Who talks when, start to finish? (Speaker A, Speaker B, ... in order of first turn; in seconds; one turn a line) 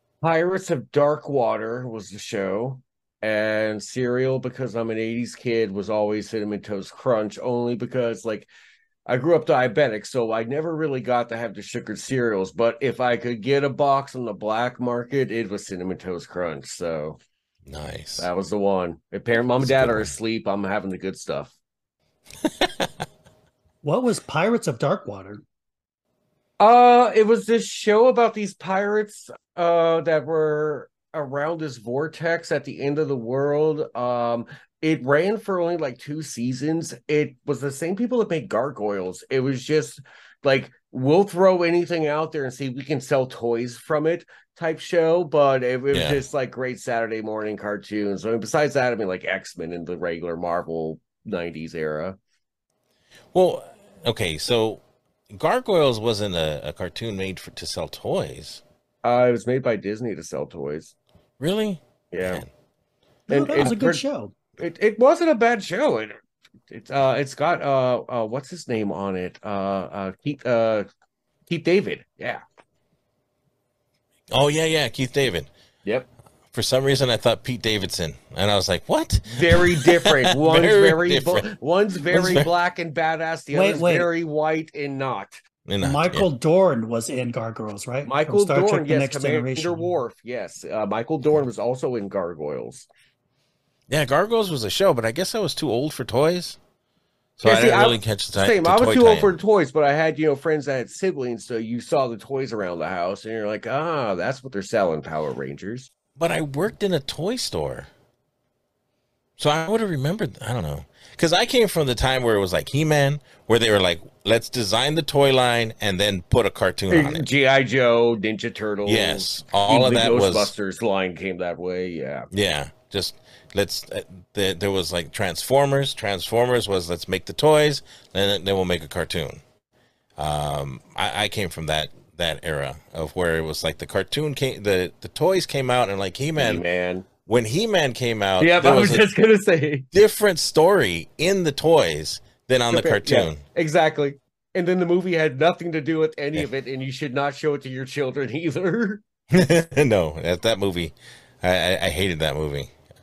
Speaker A: 0.2-8.5
Speaker A: 9.1-17.2
Speaker B: 17.7-18.3
Speaker A: 18.2-21.5
Speaker B: 19.6-20.1
Speaker C: 23.8-25.4
Speaker A: 26.6-52.2
Speaker B: 45.9-46.2
Speaker B: 53.3-58.6
Speaker A: 59.0-60.9
Speaker B: 61.4-62.5
Speaker A: 62.1-62.4
Speaker A: 63.3-64.0
Speaker C: 63.3-64.3
Speaker A: 64.6-66.1
Speaker A: 66.7-70.9
Speaker A: 71.5-72.4
Speaker B: 74.3-75.5
Speaker B: 76.5-81.5
Speaker A: 79.3-85.4
Speaker B: 82.1-82.5
Speaker C: 83.5-84.1
Speaker B: 85.6-86.3
Speaker C: 85.8-90.0
Speaker A: 88.0-92.8
Speaker B: 93.9-96.6
Speaker B: 97.4-99.3
Speaker A: 97.4-105.9
Speaker B: 106.2-107.9
Speaker B: 109.4-117.2
Speaker A: 116.9-122.3
Speaker B: 118.9-120.5
Speaker B: 122.3-129.4
Speaker B: 130.2-136.6
Speaker A: 136.4-137.1
Speaker B: 137.2-139.1
Speaker A: 138.4-139.9
Speaker B: 139.9-143.4
Speaker A: 142.7-149.0
Speaker B: 149.3-152.7